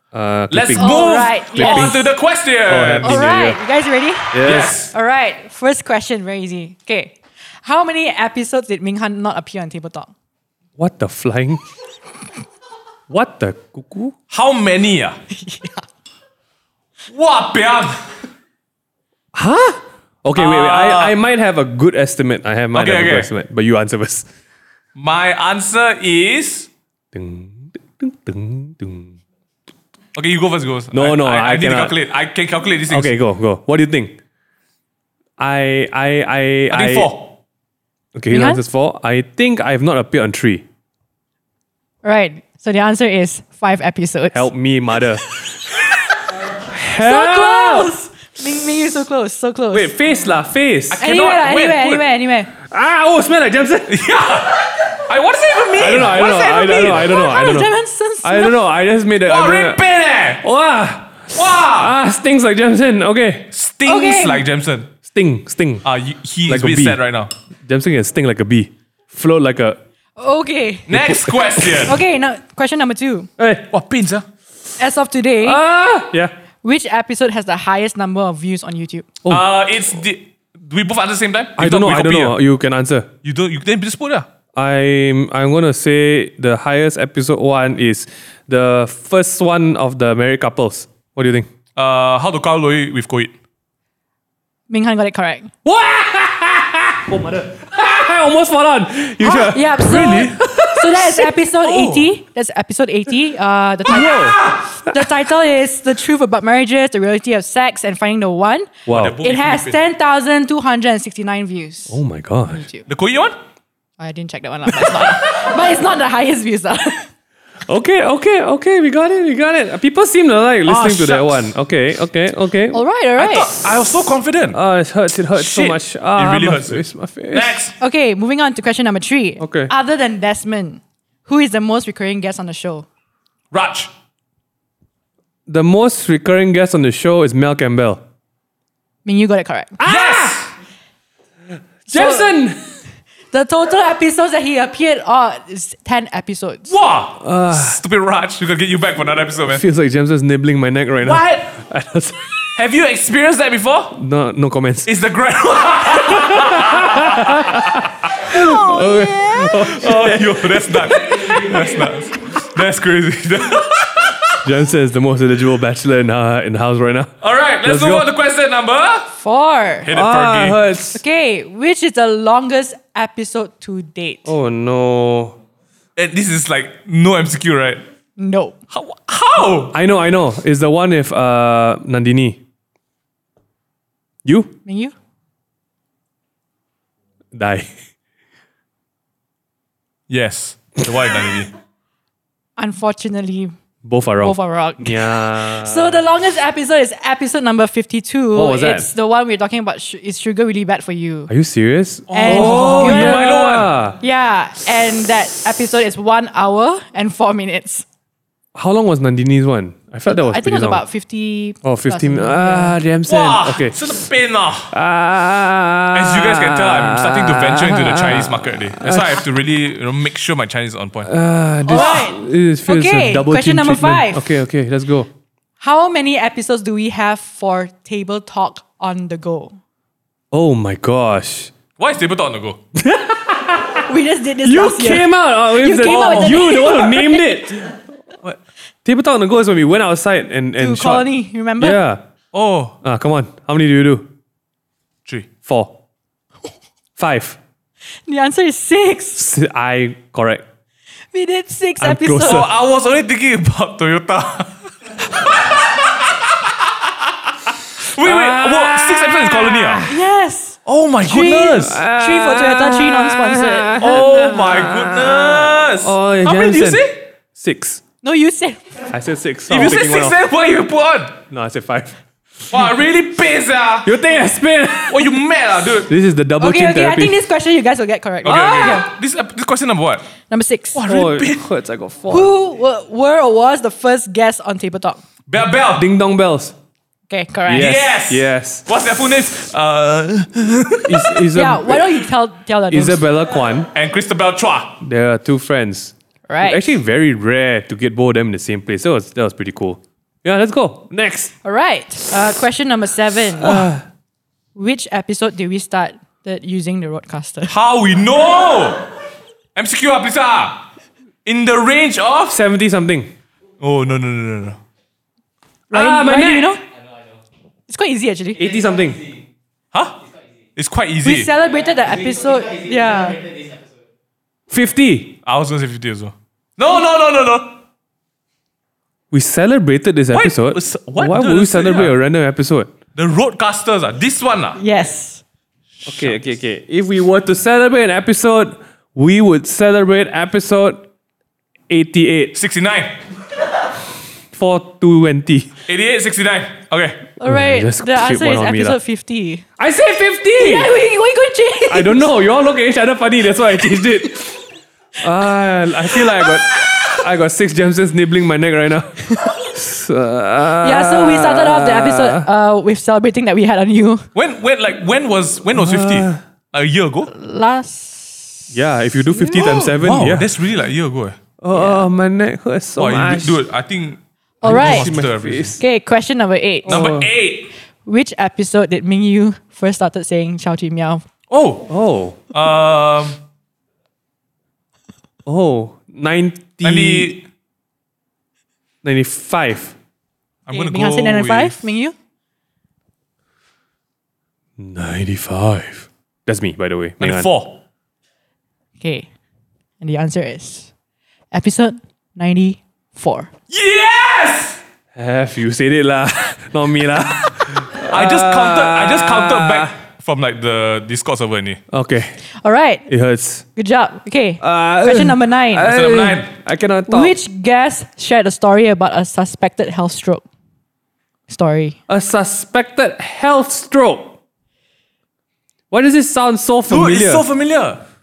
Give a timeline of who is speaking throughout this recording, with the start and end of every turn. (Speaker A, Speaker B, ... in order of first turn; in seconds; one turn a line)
Speaker A: 0.1-2.1
Speaker B: 0.5-3.2
Speaker C: 0.8-2.0
Speaker A: 2.7-3.6
Speaker C: 3.0-10.1
Speaker A: 4.3-4.8
Speaker B: 4.4-4.9
Speaker A: 10.8-11.6
Speaker A: 13.1-14.1
Speaker B: 14.3-15.2
Speaker C: 15.3-15.8
Speaker B: 17.1-18.0
Speaker A: 19.3-24.3
Speaker B: 20.3-21.1
Speaker B: 22.7-23.3
Speaker B: 24.9-26.7
Speaker A: 27.1-29.2
Speaker B: 30.1-33.1
Speaker A: 30.9-31.9
Speaker A: 32.9-34.1
Speaker A: 35.4-37.1
Speaker B: 36.7-37.3
Speaker A: 38.1-40.6
Speaker C: 38.3-38.6
Speaker C: 42.0-44.5
Speaker A: 44.3-45.3
Speaker A: 46.6-47.9
Speaker C: 47.0-49.9
Speaker A: 49.7-51.0
Speaker B: 50.9-52.0
Speaker C: 51.0-52.5
Speaker A: 52.6-54.0
Speaker B: 53.9-57.0
Speaker A: 55.8-57.7
Speaker C: 56.1-58.6
Speaker A: 58.2-59.8
Speaker B: 59.2-60.4
Speaker A: 60.4-63.5
Speaker B: 61.3-61.9
Speaker B: 63.5-64.9
Speaker C: 63.9-64.4
Speaker A: 65.0-65.8
Speaker B: 65.8-67.3
Speaker A: 66.5-67.0
Speaker A: 67.6-69.8
Speaker C: 70.2-70.9
Speaker B: 70.9-72.0
Speaker A: 70.9-71.9
Speaker C: 71.8-73.3
Speaker A: 73.4-73.7
Speaker B: 73.7-74.2
Speaker C: 74.8-75.6
Speaker A: 75.4-76.3
Speaker C: 76.6-79.0
Speaker B: 79.3-82.4
Speaker A: 81.6-83.1
Speaker B: 83.2-84.3
Speaker A: 84.5-91.5
Speaker B: 91.8-93.3
Speaker C: 94.7-95.5
Speaker A: 95.6-101.3
Speaker C: 99.2-104.4
Speaker B: 99.8-100.4
Speaker A: 103.9-105.1
Speaker C: 104.9-112.0
Speaker A: 108.9-109.2
Speaker B: 108.9-109.8
Speaker A: 111.9-112.6
Speaker C: 112.5-112.8
Speaker B: 112.9-113.3
Speaker C: 114.0-117.1
Speaker A: 117.7-122.8
Speaker B: 120.7-121.5
Speaker C: 122.7-123.5
Speaker B: 123.2-124.6
Speaker A: 124.5-127.6
Speaker B: 125.3-127.7
Speaker C: 127.8-132.8
Speaker A: 129.4-129.7
Speaker B: 133.5-133.9
Speaker A: 135.5-138.0
Speaker C: 139.0-139.8
Speaker A: 139.8-140.4
Speaker B: 139.8-140.5
Speaker A: 141.9-142.6
Speaker C: 141.9-142.3
Speaker C: 143.3-146.7
Speaker B: 146.7-149.6
Speaker A: 147.2-147.8
Speaker A: 149.4-152.3
Speaker B: 151.0-151.4
Speaker B: 152.5-153.9
Speaker A: 153.9-154.9
Speaker B: 154.8-157.7
Speaker A: 156.0-161.8
Speaker B: 159.4-164.3
Speaker A: 164.4-168.1
Speaker B: 167.2-169.1
Speaker C: 169.2-169.9
Speaker B: 169.8-170.6
Speaker A: 169.9-171.0
Speaker C: 170.9-174.3
Speaker A: 174.2-175.4
Speaker B: 175.9-177.8
Speaker C: 178.2-178.6
Speaker B: 178.7-179.7
Speaker A: 179.7-182.4
Speaker A: 184.2-184.5
Speaker C: 184.7-184.9
Speaker A: 187.3-187.7
Speaker B: 190.1-191.5
Speaker C: 192.6-193.5
Speaker A: 193.8-196.0
Speaker C: 194.2-201.3
Speaker A: 198.3-198.9
Speaker A: 201.3-204.0
Speaker B: 202.1-203.7
Speaker C: 202.1-203.3
Speaker C: 204.0-207.8
Speaker A: 208.5-210.8
Speaker C: 210.1-212.8
Speaker A: 211.6-213.8
Speaker B: 213.1-214.7
Speaker A: 214.7-219.2
Speaker B: 215.9-221.1
Speaker A: 221.0-225.1
Speaker C: 221.7-224.2
Speaker B: 221.7-222.0
Speaker C: 225.6-229.6
Speaker A: 230.3-231.5
Speaker B: 231.8-232.6
Speaker A: 232.8-233.8
Speaker C: 233.9-237.2
Speaker A: 234.4-237.7
Speaker B: 235.8-236.4
Speaker A: 238.8-241.1
Speaker C: 240.6-241.8
Speaker A: 241.6-242.0
Speaker B: 242.3-242.8
Speaker A: 242.8-244.1
Speaker A: 245.4-245.8
Speaker A: 247.0-247.4
Speaker C: 248.1-249.2
Speaker A: 249.2-250.4
Speaker C: 251.1-252.4
Speaker A: 251.8-252.5
Speaker B: 252.2-256.3
Speaker B: 257.9-259.8
Speaker A: 258.0-260.0
Speaker C: 259.9-263.8
Speaker B: 260.6-261.8
Speaker A: 261.1-267.8
Speaker B: 263.8-267.0
Speaker C: 268.0-268.6
Speaker A: 268.9-270.2
Speaker B: 269.5-271.2
Speaker A: 271.3-272.0
Speaker B: 272.5-273.9
Speaker A: 273.8-275.1
Speaker B: 274.9-275.9
Speaker A: 275.9-277.2
Speaker C: 276.4-278.9
Speaker B: 278.2-280.0
Speaker C: 280.3-280.8
Speaker B: 280.7-281.4
Speaker A: 280.8-282.3
Speaker C: 282.1-285.0
Speaker B: 285.3-285.9
Speaker A: 285.7-286.5
Speaker C: 287.1-287.8
Speaker A: 287.5-288.6
Speaker B: 287.5-291.2
Speaker A: 290.8-292.0
Speaker C: 291.3-293.0
Speaker A: 292.7-293.7
Speaker B: 293.7-294.8
Speaker A: 294.8-301.3
Speaker C: 296.3-296.7
Speaker C: 301.4-303.7
Speaker A: 303.4-303.8
Speaker C: 304.6-307.5
Speaker B: 307.5-308.9
Speaker B: 309.6-310.6
Speaker B: 311.2-312.4
Speaker A: 312.3-313.1
Speaker B: 313.6-314.6
Speaker A: 315.7-316.5
Speaker C: 315.7-316.6
Speaker C: 317.7-318.5
Speaker A: 318.4-319.1
Speaker B: 319.7-320.0
Speaker B: 320.6-321.3
Speaker C: 321.0-323.2
Speaker A: 324.5-325.2
Speaker B: 325.2-327.6
Speaker A: 329.1-332.7
Speaker B: 330.1-331.9
Speaker B: 332.9-334.6
Speaker C: 334.6-335.2
Speaker B: 335.8-336.2
Speaker A: 335.9-340.9
Speaker A: 341.7-342.3
Speaker B: 342.3-342.9
Speaker A: 344.3-345.5
Speaker B: 345.7-347.0
Speaker C: 347.2-349.4
Speaker A: 347.2-348.8
Speaker A: 349.6-350.7
Speaker C: 350.4-352.1
Speaker A: 351.7-354.4
Speaker A: 355.0-362.3
Speaker C: 356.0-356.3
Speaker C: 360.6-364.1
Speaker B: 364.1-367.1
Speaker A: 365.5-366.2
Speaker C: 367.1-368.5
Speaker A: 368.5-370.3
Speaker B: 369.3-371.2
Speaker A: 371.4-373.4
Speaker C: 371.5-371.8
Speaker B: 372.8-375.6
Speaker C: 374.4-374.9
Speaker A: 374.4-375.6
Speaker C: 375.6-376.8
Speaker A: 376.6-377.1
Speaker B: 376.7-377.5
Speaker C: 377.8-381.0
Speaker B: 381.3-381.7
Speaker A: 381.7-382.2
Speaker B: 382.3-383.2
Speaker A: 385.2-387.1
Speaker B: 386.6-387.2
Speaker A: 388.8-389.7
Speaker B: 390.5-391.6
Speaker C: 390.5-391.9
Speaker A: 394.6-397.3
Speaker B: 397.0-397.6
Speaker C: 398.8-399.1
Speaker C: 399.8-400.7
Speaker C: 401.3-403.3
Speaker B: 403.5-404.6
Speaker A: 404.9-409.7
Speaker B: 407.8-411.6
Speaker A: 411.7-412.2
Speaker C: 412.4-412.9
Speaker A: 412.9-413.4
Speaker C: 413.6-415.7
Speaker A: 414.4-417.1
Speaker B: 415.6-416.3
Speaker C: 416.9-420.2
Speaker C: 421.3-421.8
Speaker A: 421.9-424.1
Speaker A: 425.7-427.2
Speaker B: 426.7-427.8